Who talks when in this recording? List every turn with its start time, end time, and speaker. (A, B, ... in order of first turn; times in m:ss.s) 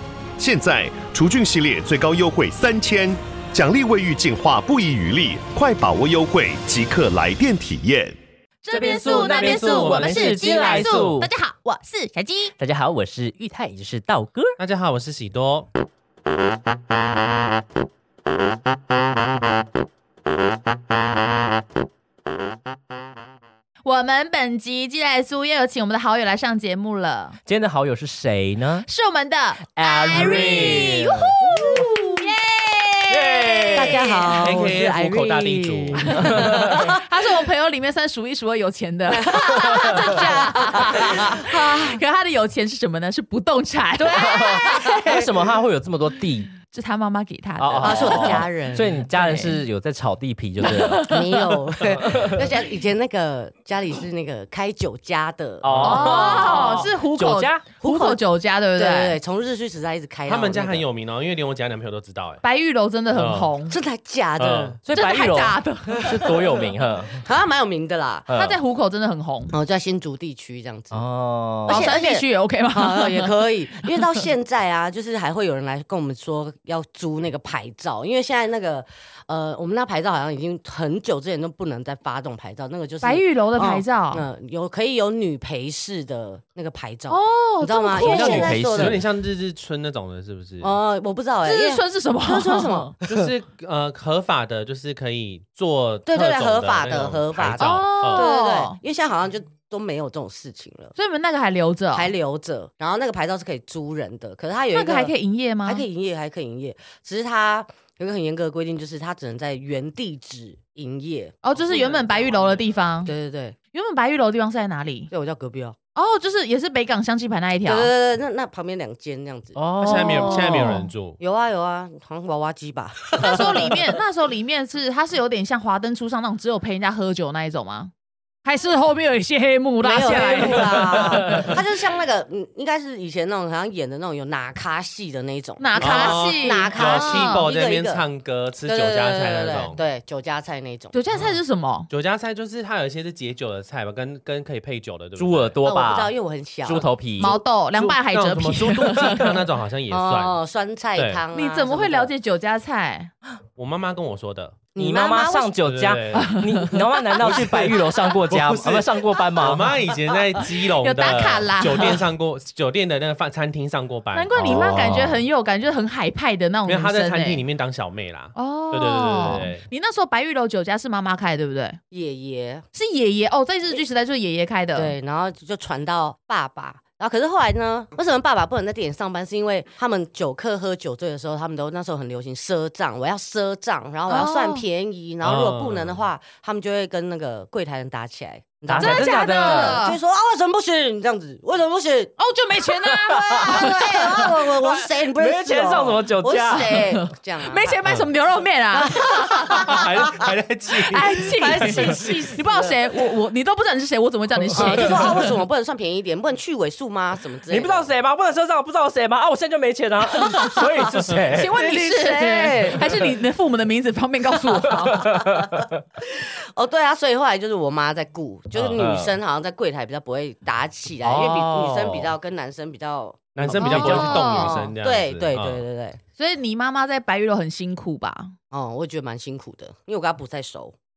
0:00.4-0:08.2 A
0:08.6-0:12.5 B
0:08.7-0:11.3 C
0:09.3-0:10.8 D
0:12.6-0:14.6 C
0:14.6-0:15.7 D
0:23.8-0:27.4 B
0:27.4-0:28.8 C
0:28.8-0:34.6 B
0:29.8-0:31.3 C
0:30.2-0:30.7 E
0:33.1-0:34.1 C
0:33.7-0:37.0 E
0:34.4-0:36.5 D
0:36.1-0:45.0 B
0:36.4-0:36.7 C
0:39.1-0:42.0 E
0:44.0-0:45.3 E
0:44.2-0:46.5 C
0:46.7-0:48.5 B
0:47.6-0:51.1 C
0:47.8-0:49.0 E
0:49.1-0:49.6 B
0:50.6-0:51.4 B
0:51.1-0:56.9 E
0:55.6-0:57.6 C
0:55.7-0:56.3 D
0:55.8-0:59.2 B
0:57.8-0:58.2 E
0:58.8-1:00.9 E
1:00.2-1:02.4 D
1:02.4-1:03.8 B
1:03.1-1:03.5 D
1:03.7-1:04.8 E
1:04.4-1:04.8 D
1:04.8-1:07.2 C
1:04.9-1:06.3 B
1:06.2-1:06.6 E
1:07.2-1:08.3 E
1:08.3-1:08.6 C
1:08.3-1:09.6 B
1:09.5-1:11.0 E
1:10.9-1:11.9 C
1:11.7-1:29.0 E
1:11.7-1:13.3 B
1:13.8-1:14.2 B
1:23.0-1:24.2 B
1:27.1-1:28.6 B
1:28.0-1:29.0 C
1:28.0-1:30.8 D
1:30.6-1:33.2 E
1:31.4-1:32.9 B
1:33.0-1:38.3 D
1:36.0-1:40.9 E
1:37.6-1:38.8 B
1:41.0-1:42.1 B
1:41.9-1:45.1 E
1:44.7-1:45.8 B
1:45.6-1:52.1 E
1:51.4-1:53.1 B
1:53.0-1:53.6 E
1:53.7-1:55.1 B
1:55.1-1:55.8 E
1:55.9-1:57.9 B
1:57.6-1:59.6 E
1:59.5-2:00.8 C
1:59.8-2:01.2 D
1:59.8-2:00.9 B
2:01.2-2:03.9 E
2:03.2-2:07.9 B
2:08.4-2:11.6 B
2:09.8-2:18.0 E
2:15.6-2:17.5 B
2:15.8-2:19.8 D
2:18.6-2:20.9 E
2:20.9-2:21.9 B
2:21.9-2:25.6 D
2:25.2-2:26.1 C
2:25.6-2:26.9 E
2:26.6-2:27.3 C
2:27.2-2:29.4 B
2:27.7-2:30.4 D
2:29.9-2:32.1 E
2:30.9-2:31.2 D
2:31.3-2:33.1 B
2:33.6-2:34.7 D
2:34.7-2:35.5 E
2:34.8-2:39.8 C
2:35.6-2:36.4 D
2:36.1-2:36.8 B
2:37.2-2:45.0 D
2:40.8-2:42.0 B
2:44.1-2:47.4 B
2:44.3-2:45.2 C
2:46.6-2:49.7 D
2:48.3-2:51.8 B
2:51.9-2:52.6 E
2:52.7-2:54.9 B
2:54.8-3:12.2 E
3:04.1-3:04.6 B
3:05.2-3:06.0 D
3:08.7-3:09.8 C
3:08.8-3:10.0 B
3:12.2-3:14.7 B
3:13.2-3:17.8 E
3:13.3-3:16.8 C
3:16.5-3:19.7 B
3:17.8-3:18.1 D
3:18.7-3:20.3 E
3:19.3-3:22.0 D
3:20.8-3:25.3 B
3:21.1-3:22.8 E
3:24.5-3:27.9 E
3:27.5-3:31.5 C
3:31.3-3:35.1 B
3:31.5-3:33.0 E
3:35.0-3:35.6 C
3:35.6-3:46.0 E
3:38.5-3:39.1 C
3:41.0-3:42.1 C
3:43.3-3:45.6 D
3:43.6-3:44.6 B
3:43.6-3:44.4 C
3:46.2-3:48.3 B
3:48.5-3:50.7 E